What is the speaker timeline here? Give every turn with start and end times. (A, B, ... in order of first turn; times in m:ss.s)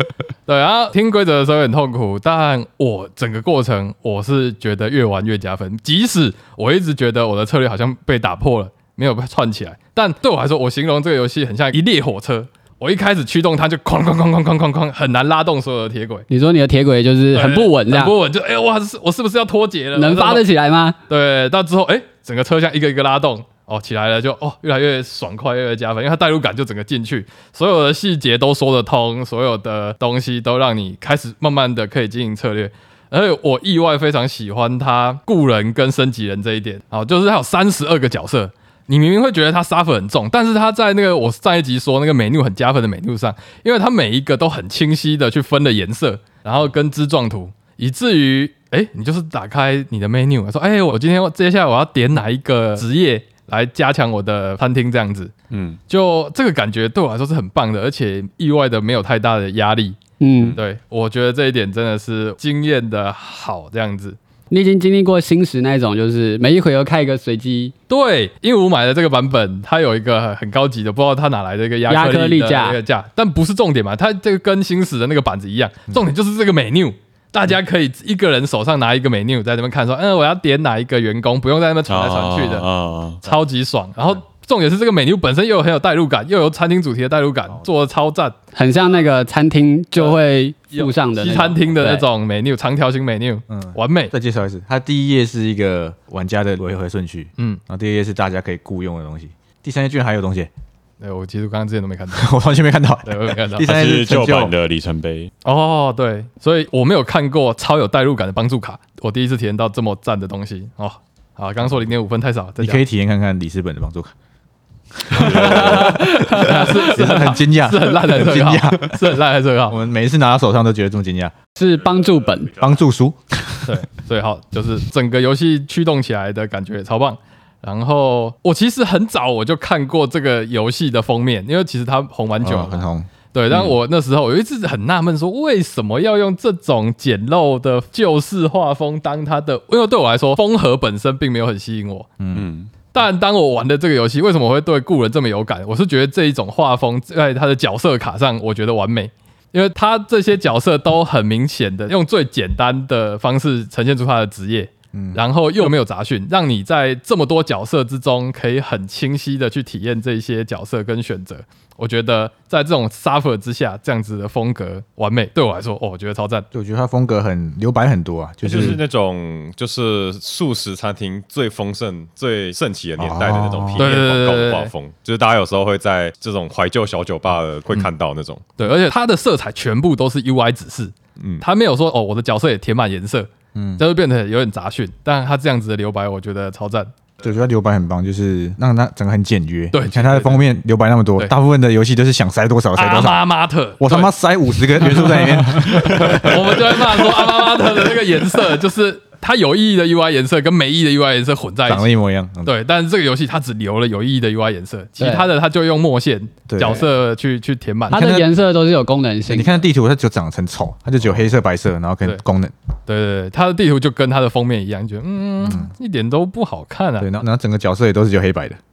0:00.5-0:16.2 A
0:16.3-0:18.2 B
0:17.3-0:20.4 A
0:20.0-0:21.0 B
0:21.1-0:55.3 A
0:55.5-0:55.8 C
0:55.9-1:00.0 A
1:00.2-1:00.6 B
1:00.6-1:04.2 A
1:04.5-1:07.7 B
1:07.9-1:22.7 A
1:11.9-1:12.8 B
1:21.9-1:23.3 C
1:23.2-1:28.4 A
1:28.6-1:32.0 B
1:30.7-1:34.1 A
1:33.5-1:40.5 D
1:41.0-1:42.3 A
1:42.1-1:44.5 D
1:43.1-1:43.7 A
1:43.7-1:45.3 C
1:45.4-1:52.8 A
1:52.6-1:54.1 D
1:55.0-1:59.0 D
1:55.1-1:56.0 C
1:55.2-1:56.8 B
1:55.4-1:59.8 A
1:59.7-2:01.3 D
2:01.6-2:02.6 B
2:02.6-2:03.9 D
2:03.7-2:22.1 A
2:12.4-2:13.1 D
2:22.2-2:22.5 D
2:22.4-2:22.7 C
2:22.9-2:46.5 A
2:34.9-2:35.2 D
2:46.5-2:48.8 D
2:48.4-2:58.5 E
2:53.0-2:53.9 D
2:53.8-2:54.7 A
2:58.6-3:06.9 A
3:01.2-3:01.4 E
3:03.5-3:03.8 D
3:07.2-3:13.3 D
3:09.7-3:10.4 A
3:12.8-3:14.1 A
3:13.8-3:17.2 D
3:15.6-3:21.9 A
3:21.7-3:22.6 D
3:22.4-3:28.0 A
3:25.0-3:25.2 B
3:26.5-3:26.9 D
3:27.9-3:28.3 D
3:27.9-3:29.6 B
3:29.3-3:32.5 D
3:32.9-3:37.1 A
3:35.5-3:35.7 D
3:37.0-3:38.6 D